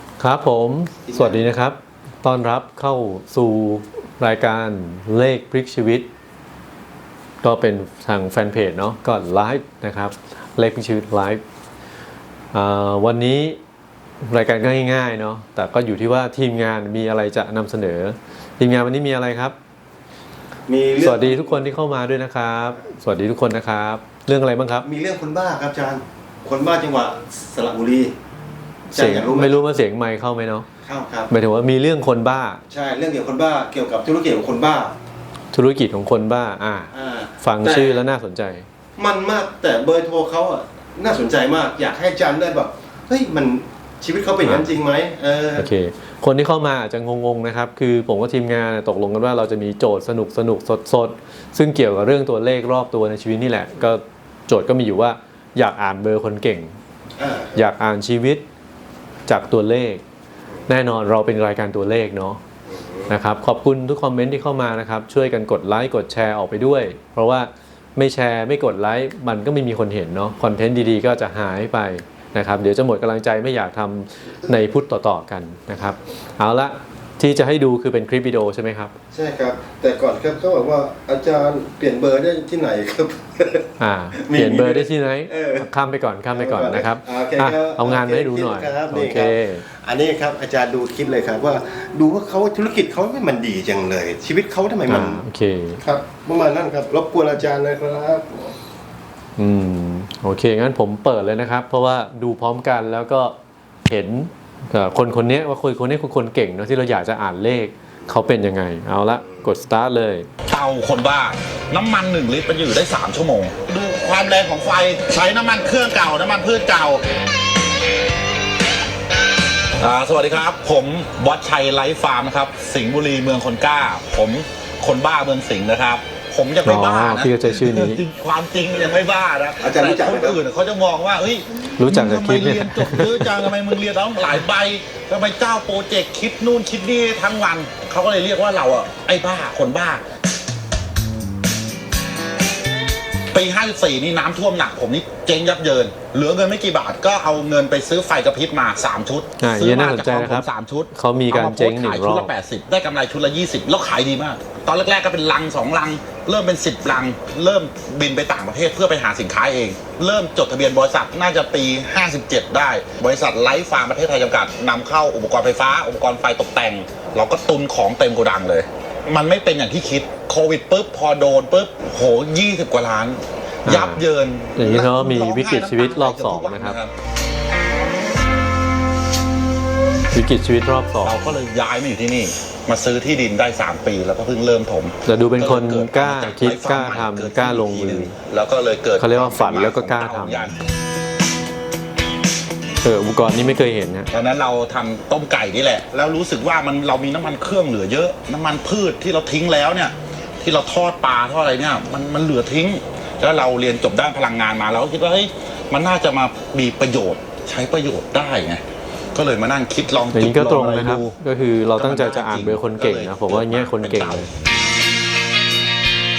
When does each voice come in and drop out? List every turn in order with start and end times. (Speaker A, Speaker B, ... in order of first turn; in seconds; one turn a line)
Speaker A: 0.2-6.1
Speaker B: 1.1-1.4
Speaker A: 7.4-11.4
Speaker A: 12.5-13.6
Speaker A: 14.2-19.5
Speaker B: 20.7-21.6
Speaker A: 21.0-24.9
Speaker B: 24.8-28.1
Speaker A: 28.9-30.6
Speaker B: 28.9-29.6
Speaker B: 30.8-31.3
Speaker A: 31.3-32.6
Speaker B: 32.7-34.9
Speaker A: 35.5-38.6
Speaker B: 36.9-38.0
Speaker B: 39.0-45.7
Speaker A: 44.4-44.7
Speaker A: 45.5-56.7
Speaker B: 57.2-57.6
Speaker A: 57.5-58.4
Speaker A: 59.3-60.0
Speaker A: 60.7-62.4
Speaker B: 62.7-63.1
Speaker A: 63.1-78.9
Speaker B: 79.1-85.7
Speaker A: 83.8-89.6
Speaker B: 86.3-95.2
Speaker A: 94.9-95.8
Speaker B: 95.8-98.5
Speaker A: 99.4-103.3
Speaker A: 103.9-110.3
Speaker C: 110.5-117.0
Speaker C: 119.8-140.0
Speaker A: 126.6-128.0
Speaker B: 129.6-130.4
Speaker A: 131.8-133.5
Speaker C: 143.3-176.9
Speaker A: 149.4-152.3
Speaker A: 173.6-174.0
Speaker A: 174.6-176.8
Speaker A: 180.1-181.3
Speaker C: 181.0-190.6
Speaker A: 185.1-188.1
Speaker A: 189.0-190.5
Speaker A: 192.8-194.1
Speaker C: 194.1-208.6
Speaker C: 209.1-211.2
Speaker A: 210.1-214.3
Speaker C: 211.7-214.3